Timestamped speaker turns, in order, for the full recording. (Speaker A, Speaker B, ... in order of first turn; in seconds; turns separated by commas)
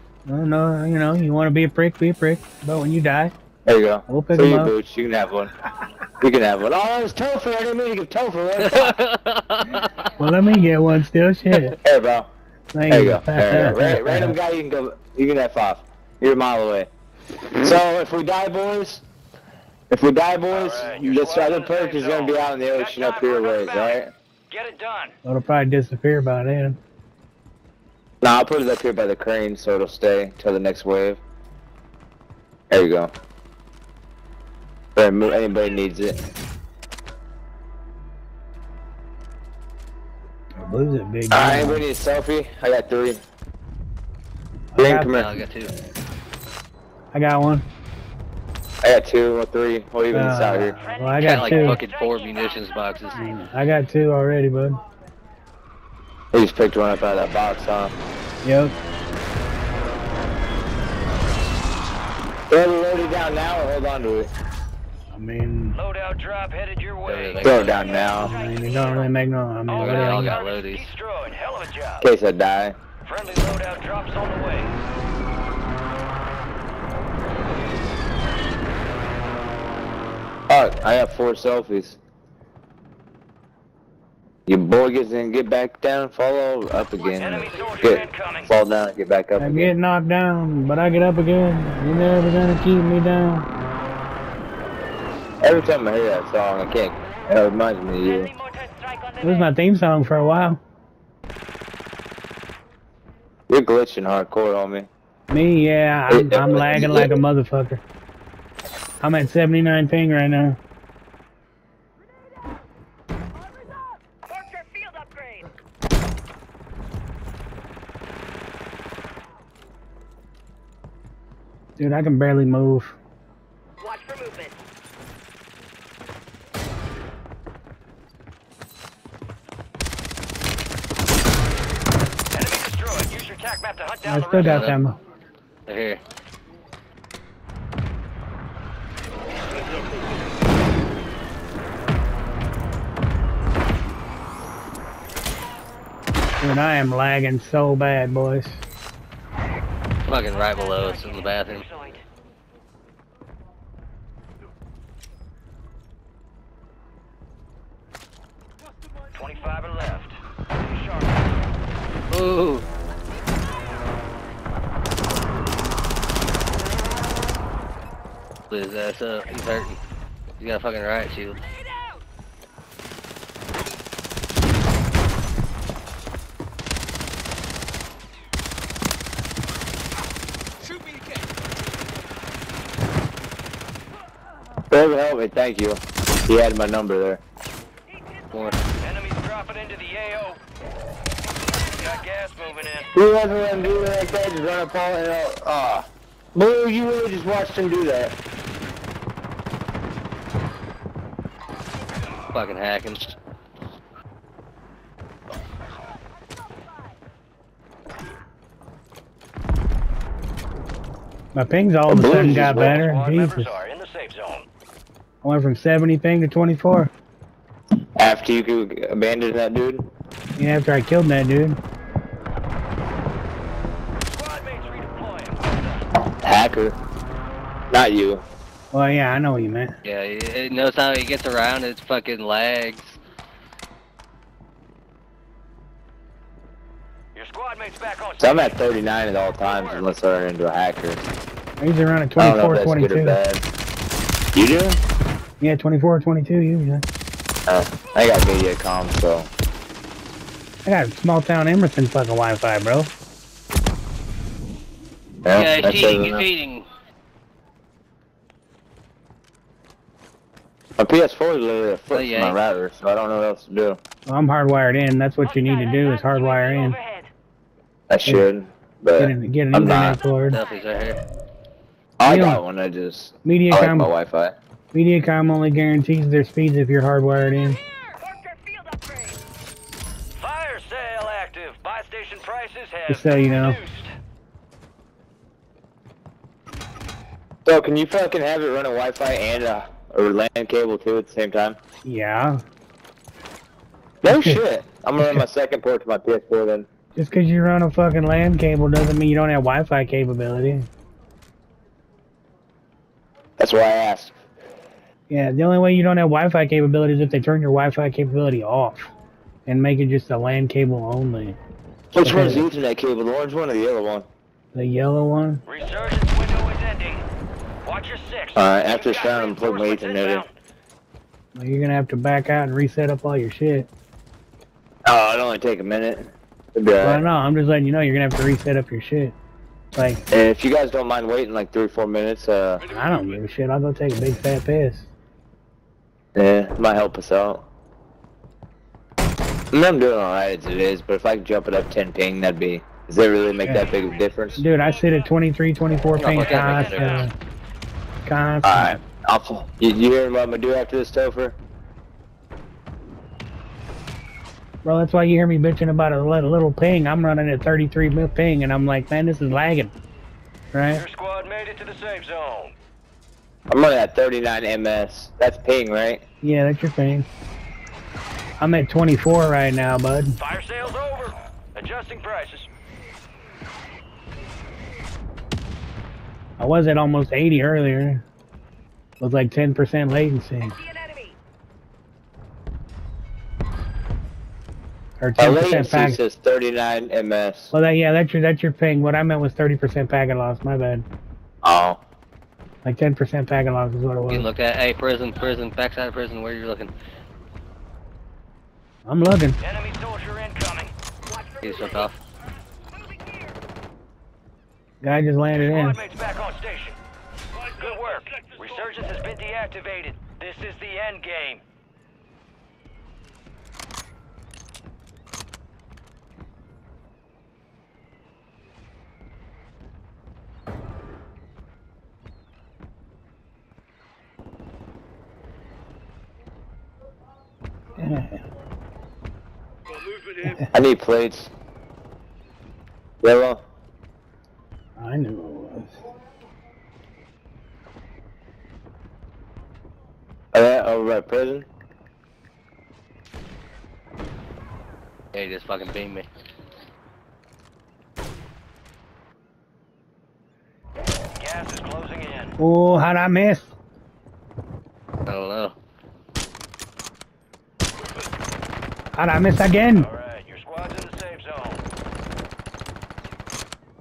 Speaker A: 0.3-3.3, Speaker B: 3.6-5.5, Speaker A: 4.1-4.7, Speaker B: 6.2-9.0, Speaker C: 8.6-10.0, Speaker A: 10.1-11.8, Speaker B: 11.8-12.3, Speaker A: 12.7-14.4, Speaker B: 12.9-16.9, Speaker B: 17.5-19.0, Speaker B: 19.9-24.1, Speaker D: 20.5-25.1, Speaker A: 25.2-26.8, Speaker B: 28.2-31.2, Speaker B: 32.7-33.1, Speaker B: 35.0-36.2, Speaker A: 40.6-41.9, Speaker B: 41.3-43.2, Speaker A: 44.7-45.2, Speaker B: 44.8-45.4, Speaker C: 45.1-45.7, Speaker A: 47.1-47.6, Speaker B: 48.8-50.7, Speaker A: 50.1-51.8, Speaker C: 51.2-53.4, Speaker D: 51.5-51.9, Speaker E: 51.9-53.3, Speaker A: 53.3-54.8, Speaker B: 56.3-57.9, Speaker A: 58.4-58.8, Speaker B: 62.5-64.3, Speaker A: 65.1-65.8, Speaker D: 65.7-69.1, Speaker C: 67.0-67.8, Speaker B: 67.4-68.3, Speaker A: 68.1-70.4, Speaker D: 69.7-72.1, Speaker C: 69.8-70.9, Speaker B: 72.0-72.8, Speaker D: 73.0-74.7, Speaker B: 80.5-82.0, Speaker B: 84.5-89.7, Speaker D: 87.1-88.5, Speaker A: 89.4-93.5, Speaker B: 95.4-98.3, Speaker E: 98.0-99.4, Speaker A: 99.2-100.6, Speaker B: 103.5-104.9, Speaker A: 105.3-107.8, Speaker B: 106.1-107.2, Speaker A: 109.0-110.6, Speaker E: 114.3-115.5, Speaker A: 121.8-123.0, Speaker E: 123.8-124.6, Speaker D: 132.3-134.7, Speaker A: 134.1-135.0, Speaker C: 134.4-134.8, Speaker C: 135.7-136.0, Speaker A: 146.4-148.6, Speaker C: 150.1-151.7, Speaker D: 150.6-151.7, Speaker D: 159.1-161.3, Speaker C: 162.1-162.7, Speaker C: 168.5-169.8, Speaker C: 170.4-171.4, Speaker B: 184.7-187.2, Speaker E: 188.0-188.4, Speaker C: 188.3-188.6, Speaker D: 188.8-190.4, Speaker D: 191.7-192.9, Speaker B: 192.9-198.2, Speaker C: 202.3-203.2, Speaker A: 211.3-213.6, Speaker B: 211.9-212.8, Speaker D: 212.5-214.5, Speaker A: 215.2-216.9, Speaker B: 218.0-219.9, Speaker A: 220.4-221.6, Speaker D: 224.0-225.9, Speaker B: 226.1-226.8, Speaker B: 227.7-228.2, Speaker A: 228.7-229.8, Speaker C: 229.8-233.0, Speaker D: 237.2-238.6, Speaker B: 238.2-241.0, Speaker D: 239.4-239.9, Speaker A: 241.6-243.2, Speaker B: 242.2-243.4, Speaker B: 244.3-244.8, Speaker A: 245.4-246.8, Speaker B: 247.5-249.3, Speaker A: 250.7-252.9, Speaker B: 255.2-256.3, Speaker C: 255.3-256.7, Speaker B: 260.8-263.8, Speaker C: 261.9-262.4, Speaker A: 264.1-266.8, Speaker E: 265.3-267.1, Speaker B: 267.9-270.0, Speaker A: 269.0-270.4, Speaker C: 270.3-271.0, Speaker B: 272.0-274.4, Speaker A: 272.1-272.4, Speaker A: 273.2-273.9, Speaker A: 274.7-277.6, Speaker E: 277.9-279.2, Speaker D: 280.2-283.9, Speaker A: 282.9-283.6, Speaker B: 287.5-291.6, Speaker A: 291.8-292.4, Speaker B: 294.0-296.7, Speaker A: 294.1-294.4, Speaker A: 295.0-295.3, Speaker A: 296.9-300.7, Speaker B: 303.4-304.2, Speaker A: 305.1-308.9, Speaker A: 309.5-311.4, Speaker B: 311.9-314.1, Speaker A: 312.0-312.5, Speaker A: 314.5-315.4, Speaker D: 315.5-317.1, Speaker D: 317.6-320.3, Speaker B: 318.4-320.2, Speaker A: 321.4-323.7, Speaker B: 324.9-327.1, Speaker A: 326.8-329.1, Speaker A: 329.7-330.0, Speaker B: 330.1-332.6, Speaker A: 332.7-334.9, Speaker B: 336.1-337.4, Speaker B: 339.5-344.4, Speaker A: 343.4-343.7, Speaker A: 344.4-347.1, Speaker C: 346.0-347.1, Speaker D: 346.1-347.1, Speaker A: 348.1-348.8, Speaker B: 348.4-351.4, Speaker A: 354.6-359.7, Speaker A: 360.5-360.9, Speaker D: 360.7-362.6, Speaker B: 363.5-366.0, Speaker A: 366.2-367.1, Speaker A: 368.4-370.2, Speaker D: 370.2-372.5, Speaker A: 376.4-378.0, Speaker A: 379.0-380.6, Speaker E: 380.6-381.2, Speaker A: 385.0-386.0, Speaker B: 385.2-387.5, Speaker A: 387.5-390.9, Speaker B: 391.4-391.8, Speaker A: 392.6-394.3, Speaker C: 394.1-396.7, Speaker A: 398.9-399.4, Speaker D: 399.4-400.7, Speaker E: 401.1-401.9, Speaker C: 401.4-402.0, Speaker E: 402.9-403.2, Speaker A: 404.8-405.8, Speaker D: 405.3-406.8, Speaker D: 407.4-411.4, Speaker A: 427.8-428.2, Speaker B: 430.5-431.3, Speaker B: 433.0-433.4, Speaker A: 434.8-435.8, Speaker B: 440.3-441.5, Speaker C: 445.1-446.1, Speaker D: 451.2-452.3, Speaker A: 452.4-453.5, Speaker C: 455.1-455.6, Speaker A: 458.9-459.9, Speaker D: 459.8-461.6